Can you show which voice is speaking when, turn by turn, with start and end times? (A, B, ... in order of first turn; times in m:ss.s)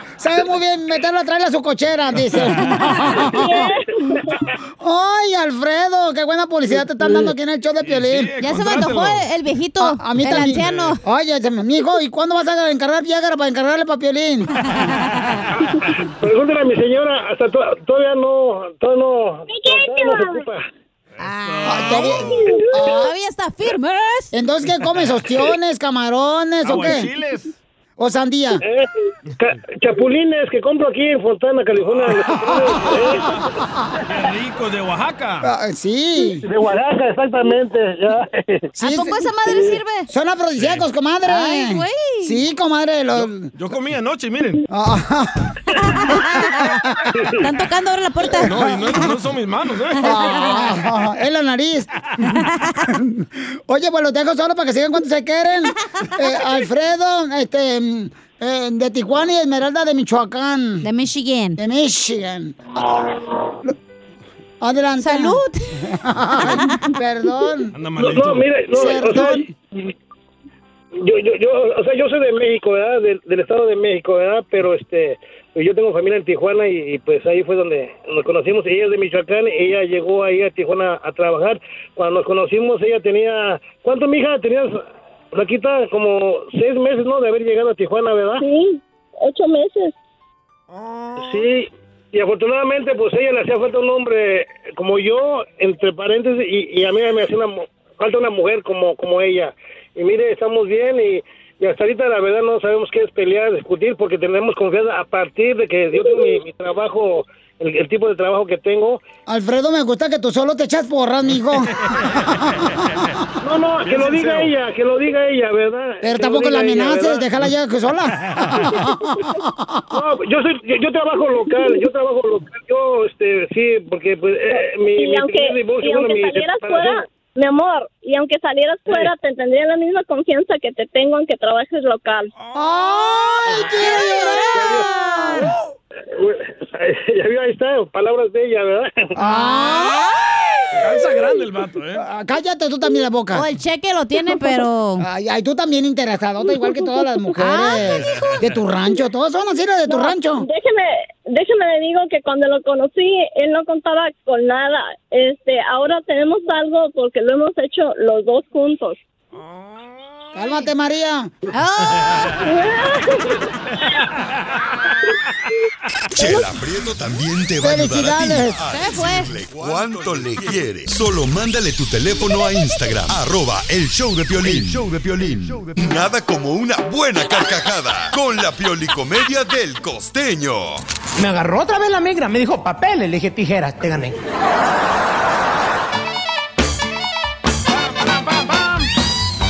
0:00.2-0:03.7 A
0:03.2-0:04.4 B
0:03.6-0:04.2 C
0:04.8-0:08.3 A
0:07.8-0:09.2 D
0:08.4-0:11.0 E
0:09.8-0:14.5 A
0:10.4-0:11.0 D
0:14.6-0:15.5 E
0:16.2-0:20.7 C
0:19.5-0:20.4 B
0:21.2-0:22.4 D
0:21.2-0:22.2 E
0:21.6-0:23.1 A
0:22.8-0:24.3 E
0:24.3-0:27.1 A
0:24.7-0:25.2 D
0:26.6-0:27.5 D
0:28.0-0:28.6 A
0:28.6-0:28.9 C
0:29.4-0:33.4 C
0:34.0-0:35.5 D
0:35.4-0:36.4 A
0:36.4-0:38.7 C
0:38.8-0:39.3 A
0:38.8-0:40.1 E
0:40.1-0:43.5 A
0:40.6-0:40.8 D
0:41.3-0:42.4 E
0:43.1-0:44.6 D
0:44.7-0:45.4 A
0:45.9-0:46.8 E
0:46.8-0:47.1 A
0:47.4-0:48.6 E
0:48.5-0:50.8 D
0:48.5-0:49.1 A
0:50.0-0:51.9 A
0:50.1-0:50.5 E
0:52.2-0:52.9 E
0:52.9-1:00.8 A
1:00.8-1:01.6 E
1:01.6-1:02.6 A
1:04.6-1:07.7 A
1:05.0-1:05.7 E
1:06.4-1:06.8 E
1:07.7-1:08.9 D
1:08.0-1:09.4 C
1:08.7-1:09.5 A
1:11.0-1:28.4 C
1:28.4-1:29.9 B
1:30.7-1:31.4 D
1:31.2-1:49.0 C
1:49.3-1:53.1 A
1:51.8-1:52.2 D
1:53.4-1:57.2 C
1:53.8-1:54.4 D
1:56.0-1:59.8 A
1:59.9-2:07.0 C
2:04.8-2:12.3 B
2:08.9-2:09.1 C
2:12.4-2:12.8 D
2:12.5-2:14.8 A
2:13.4-2:15.5 E
2:14.5-2:14.9 C
2:16.1-2:19.1 C
2:19.2-2:20.1 A
2:19.2-2:20.1 E
2:20.7-2:22.0 D
2:21.9-2:23.5 A
2:23.3-2:25.0 E
2:25.0-2:30.4 A
2:27.4-2:27.9 E
2:29.9-2:39.0 B
2:39.3-2:40.6 D
2:40.3-2:41.3 A
2:41.5-2:42.3 E
2:42.1-2:42.4 D
2:42.4-2:43.4 B
2:44.3-2:44.6 D
2:46.1-3:00.8 F
2:47.6-2:48.6 A
2:48.7-2:49.4 E
3:01.2-3:04.1 G
3:07.7-3:08.9 D